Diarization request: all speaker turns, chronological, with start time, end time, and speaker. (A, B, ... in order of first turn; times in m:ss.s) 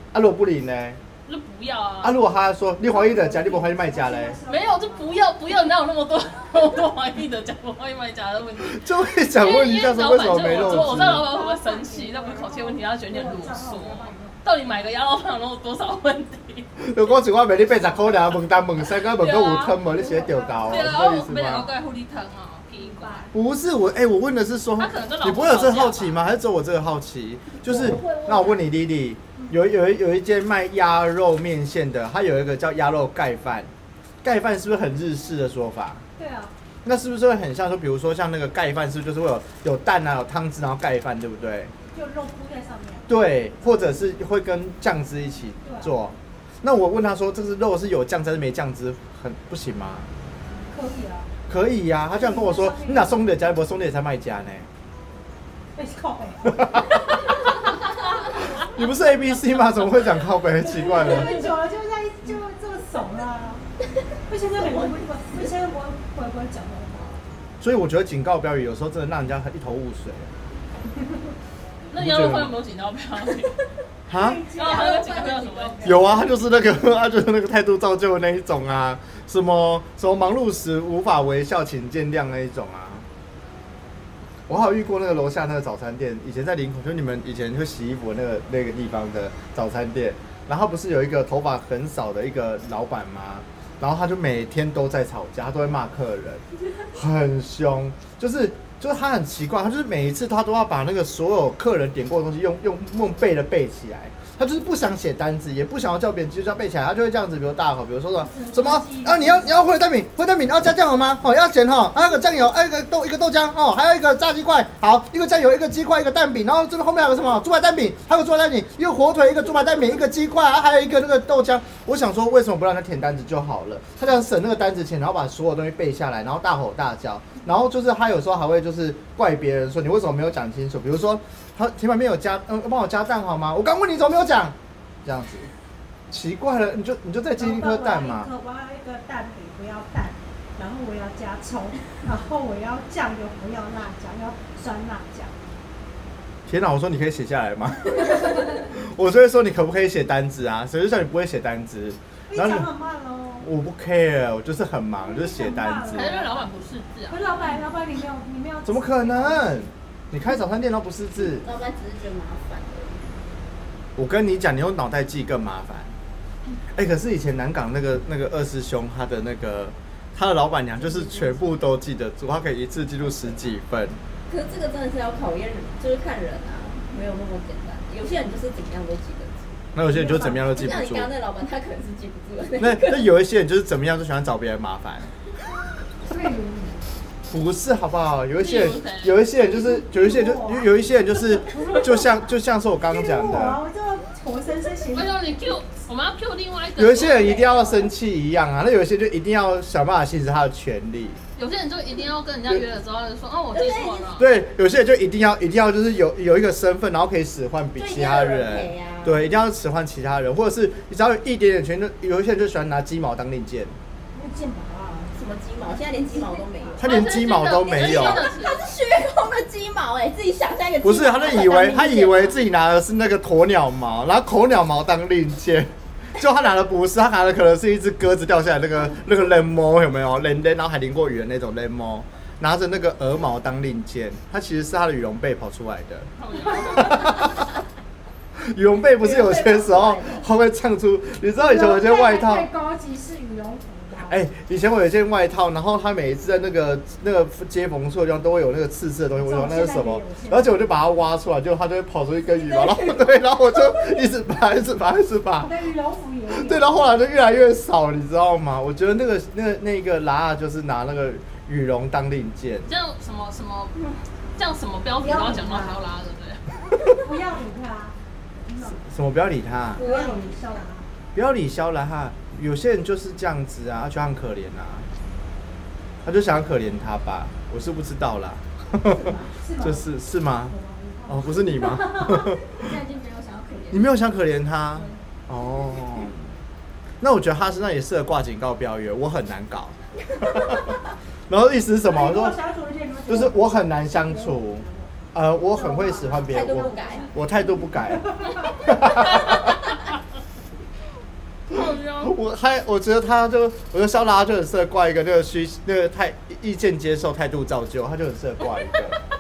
0:00.1-0:01.0 A
0:01.2-0:02.2 B
0:02.0-0:04.4 A
0:02.8-0:05.2 C
0:04.5-0:08.8 B
0:08.6-0:11.2 A
0:09.3-0:16.7 B
0:10.4-0:14.7 C
0:16.8-0:21.7 A
0:18.9-0:19.8 B
0:19.8-0:21.2 C
0:20.6-0:23.3 B
0:22.8-0:23.3 C
0:23.3-0:33.7 A
0:24.8-0:26.2 B
0:27.6-0:28.6 D
0:34.2-0:36.0 A
0:36.2-0:36.5 C
0:36.8-0:41.7 A
0:41.9-0:43.9 C
0:43.1-0:50.1 A
0:45.6-0:46.0 C
0:50.5-0:51.3 C
0:51.5-0:54.7 A
0:52.2-0:53.2 C
0:55.8-0:57.0 C
0:56.5-0:57.5 A
0:58.6-1:01.4 A
1:00.6-1:03.6 C
1:04.3-1:07.2 C
1:04.6-1:04.9 D
1:07.6-1:10.3 A
1:11.9-1:13.6 B
1:11.9-1:12.6 A
1:14.1-1:14.4 A
1:14.1-1:16.2 C
1:14.6-1:16.1 B
1:14.6-1:16.0 D
1:15.8-1:23.1 A
1:24.5-2:15.5 A
1:48.2-1:49.6 C
2:16.1-2:18.3 A
2:17.4-2:25.3 C
2:26.5-2:32.7 A
2:32.3-2:33.5 C
2:33.4-2:36.2 A
2:35.0-2:36.4 C
2:35.9-2:37.4 B
2:37.1-2:39.6 C
2:38.6-2:41.5 A
2:41.3-2:43.1 D
2:44.0-2:45.9 A
2:46.7-2:54.0 A
2:54.3-2:59.6 D
2:59.8-3:01.1 A
2:59.9-3:00.5 C
3:00.2-3:03.1 D
3:02.6-3:05.1 A
3:06.0-3:06.8 C
3:07.3-3:13.6 A
3:08.4-3:09.3 B
3:09.4-3:12.1 C
3:12.9-3:15.1 C
3:14.9-3:17.6 B
3:16.8-3:21.2 A
3:21.4-3:24.3 B
3:23.5-3:24.2 D
3:24.2-3:33.8 A
3:27.8-3:29.2 D
3:34.1-3:35.1 C
3:35.1-3:42.4 D
3:35.9-3:36.8 C
3:36.8-3:38.3 A
3:36.8-3:38.6 B
3:40.8-3:57.5 A
3:56.2-3:57.4 B
3:58.4-4:02.5 A
3:59.0-4:00.2 D
4:01.4-4:04.2 C
4:04.1-4:15.5 A
4:09.2-4:10.7 C
4:12.3-4:13.9 D
4:15.4-4:17.0 C
4:16.3-4:22.7 A
4:22.6-4:23.8 B
4:24.4-4:26.4 B
4:25.0-4:25.8 C
4:27.0-4:28.8 C
4:28.8-4:29.8 A
4:29.8-4:30.9 C
4:29.8-4:30.4 E
4:31.1-4:34.9 A
4:36.0-4:40.5 A
4:38.8-4:39.9 C
4:40.4-4:42.4 C
4:41.1-4:42.7 A
4:42.5-4:43.9 E
4:43.7-4:46.3 A
4:44.7-4:45.0 E
4:47.0-4:50.8 A
4:51.3-4:52.4 A
4:51.8-4:54.9 C
4:53.1-4:59.6 A
4:55.5-4:59.0 C
4:56.2-4:57.1 D
4:59.0-4:59.9 B
5:01.5-5:02.2 B
5:01.5-5:09.0 A
5:08.5-5:09.0 B